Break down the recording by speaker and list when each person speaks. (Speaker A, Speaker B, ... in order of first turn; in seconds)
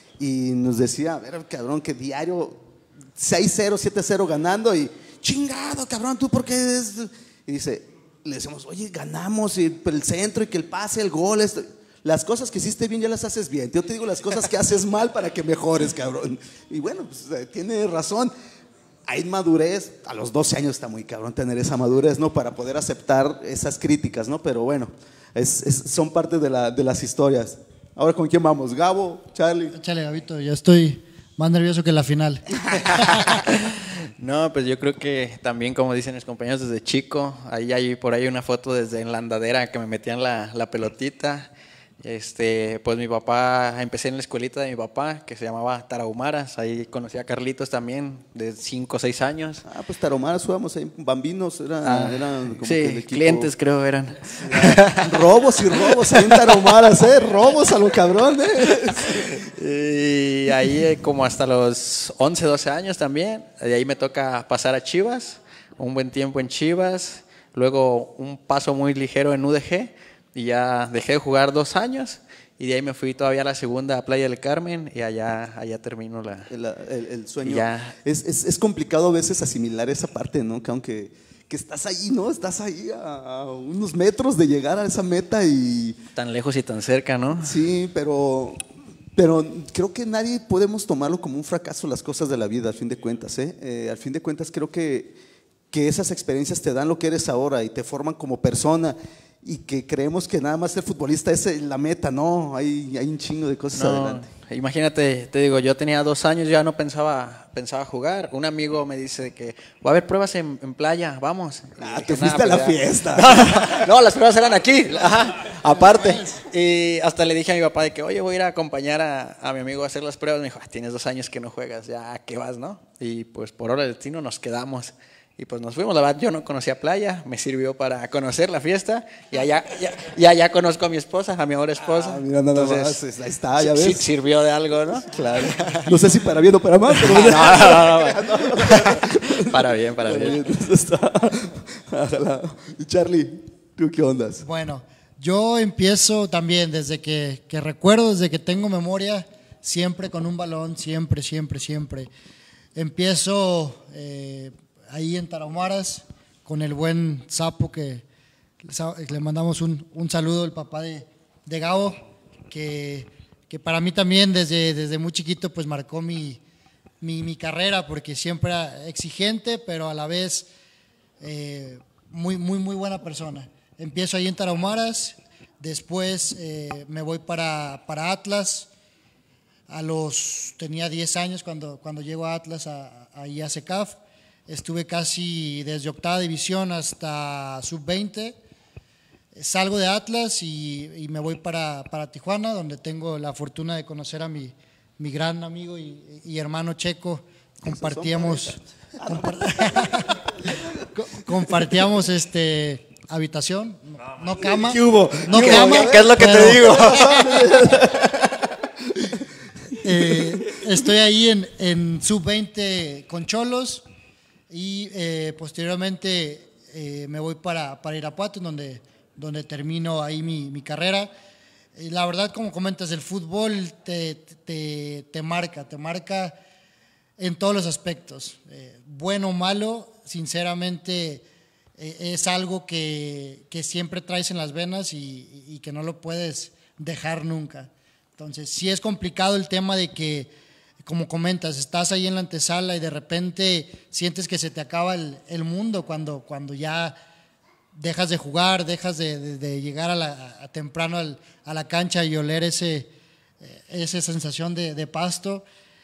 Speaker A: 0.2-2.6, 3.2-18.3, 19.1-29.8, 49.6-53.5, 54.4-59.4, 76.5-86.0, 87.4-88.6, 89.2-95.2, 95.7-104.3, 111.8-113.9, 131.9-134.1, 135.0-144.4, 197.6-200.1, 204.8-208.4
Speaker B: 29.7-32.5, 144.4-152.1, 152.8-158.0, 158.6-166.4, 167.0-170.5, 171.2-178.7, 179.7-188.4, 189.3-198.6, 199.1-200.2, 200.9-207.2, 209.8-213.8, 214.5-221.1, 221.8-226.4, 227.2-231.2, 231.8-240.3, 240.8-247.0, 247.8-252.9, 253.4-255.4
Speaker C: 34.2-41.5, 42.0-49.6, 51.8-56.8, 59.1-76.5, 77.4-78.0, 86.2-87.6, 103.7-133.0, 133.6-136.0, 136.9-140.4, 204.4-207.7